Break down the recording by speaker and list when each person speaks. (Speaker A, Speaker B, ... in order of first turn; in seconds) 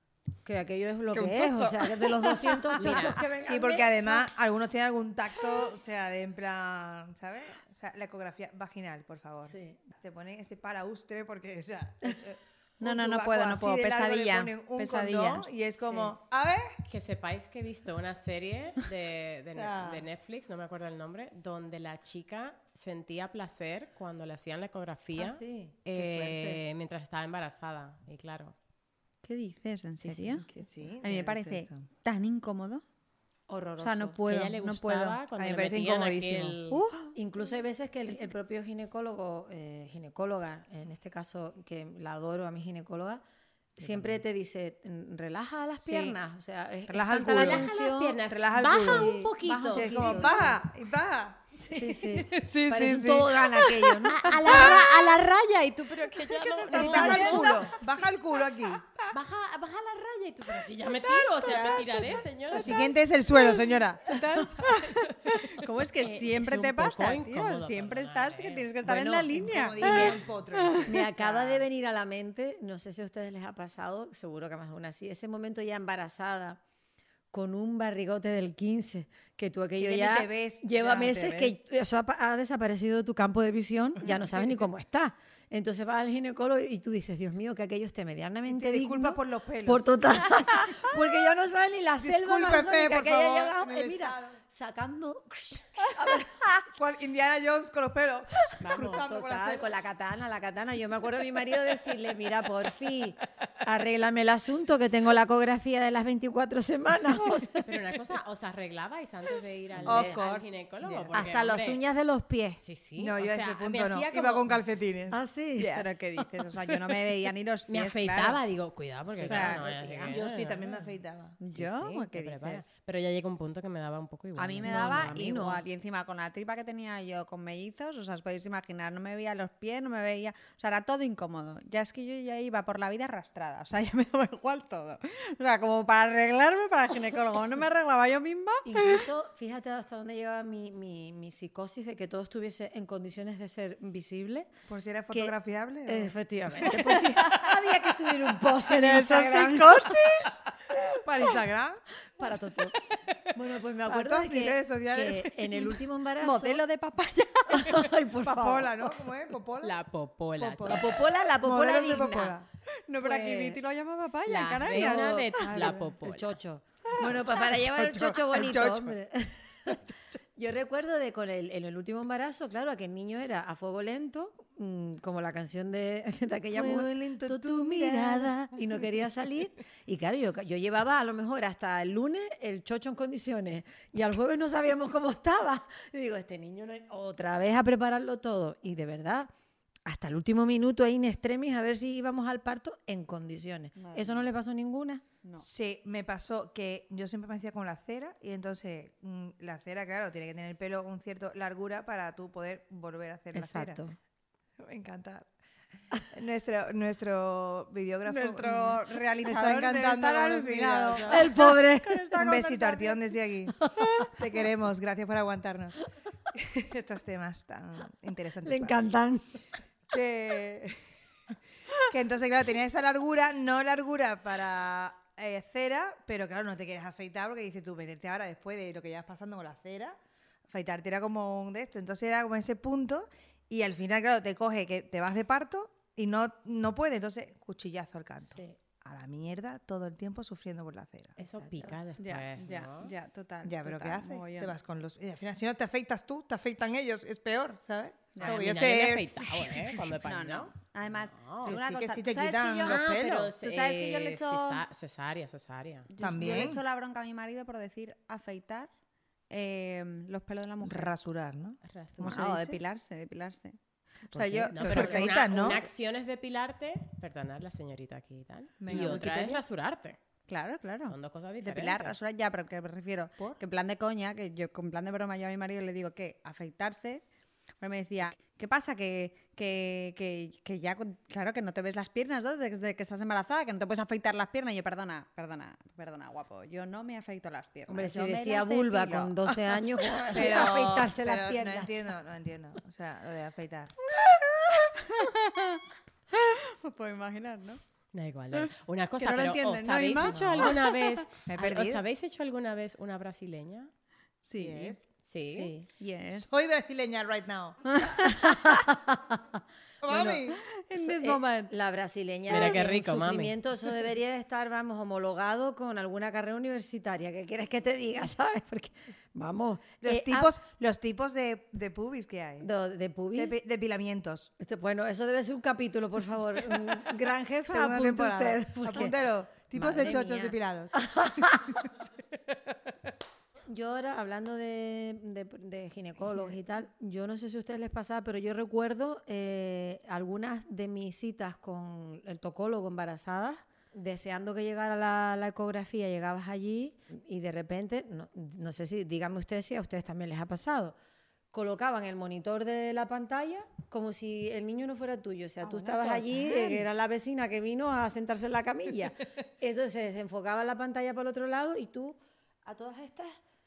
Speaker A: 0.4-4.3, 9.5-9.8, 25.1-26.6, 33.5-34.2, 37.1-43.2, 43.8-48.2, 48.8-50.6, 51.6-54.7, 56.7-57.6, 70.9-76.6, 77.3-96.6, 98.8-107.7, 109.8-110.2, 111.1-112.6, 115.1-115.7, 119.2-120.2, 124.6-125.6, 138.6-144.5, 145.9-150.1, 152.2-152.8, 153.3-156.6, 157.5-158.9, 160.6-162.4, 163.0-163.6, 164.7-169.8, 170.4-189.3, 189.9-195.0, 203.3-204.0, 211.1-212.2, 213.6-214.1, 218.4-219.3, 238.3-238.6, 241.2-241.8, 287.7-291.8, 305.2-305.7, 308.1-309.4, 310.7-320.3, 322.4-323.4, 324.4-329.0, 329.5-331.6, 333.5-350.8, 351.3-363.1
Speaker B: 1.1-3.1, 12.8-15.9, 29.2-30.5, 31.0-32.8, 33.8-35.2, 36.7-37.1, 56.7-57.6, 63.3-71.0, 115.7-118.4, 119.2-119.6, 121.4-122.7, 124.4-139.1, 148.7-150.4, 156.2-157.9, 162.9-165.5, 193.8-194.3, 208.1-213.0, 242.0-244.5, 248.2-248.4, 249.8-252.9, 253.4-254.6, 255.9-258.7, 259.3-260.9, 262.0-263.6, 264.1-265.6, 268.7-269.0, 270.3-277.0, 277.6-290.5, 293.9-297.6, 298.3-301.1, 304.2-304.8, 305.8-306.3, 307.8-308.6, 309.9-311.5, 355.4-356.7
Speaker C: 2.8-3.2, 16.9-28.5, 30.0-30.4, 34.2-36.8, 47.2-50.4, 54.1-57.8, 59.1-63.0, 66.0-70.2, 98.6-99.0, 107.6-111.8, 112.6-114.8, 117.7-120.7, 121.5-125.0, 159.6-161.0, 164.3-166.4, 241.2-242.9, 248.2-251.6, 252.7-255.9, 261.6-262.0, 264.1-270.0, 270.9-271.9, 297.9-303.7, 305.0-305.5, 312.3-313.4
Speaker D: 3.3-16.8, 19.5-20.1, 30.5-31.9, 35.4-36.6, 43.8-44.2, 45.8-46.1, 46.9-47.7, 48.2-49.1, 49.7-55.1, 56.7-58.9, 61.2-64.3, 69.3-71.7, 79.8-81.4, 84.0-84.6, 88.5-91.0, 92.0-94.4, 96.6-99.7, 109.8-111.2, 113.0-116.0, 119.2-121.4, 144.7-147.4, 150.7-151.8, 152.8-153.2, 153.9-155.8, 158.2-159.8, 160.4-162.5, 165.4-165.9, 167.0-169.0, 176.5-178.3, 195.4-203.8, 204.6-205.3, 206.0-211.4, 212.2-215.8, 216.3-218.8, 219.9-220.8, 221.7-230.0, 230.5-241.2, 243.4-249.8, 251.4-253.3, 256.0-256.6, 260.6-262.6, 264.6-265.6, 268.6-269.4, 290.1-293.7, 300.1-300.5, 301.3-301.8, 304.4-304.8, 306.1-307.7, 309.8-310.4, 319.8-322.5, 323.1-324.3, 327.5-331.7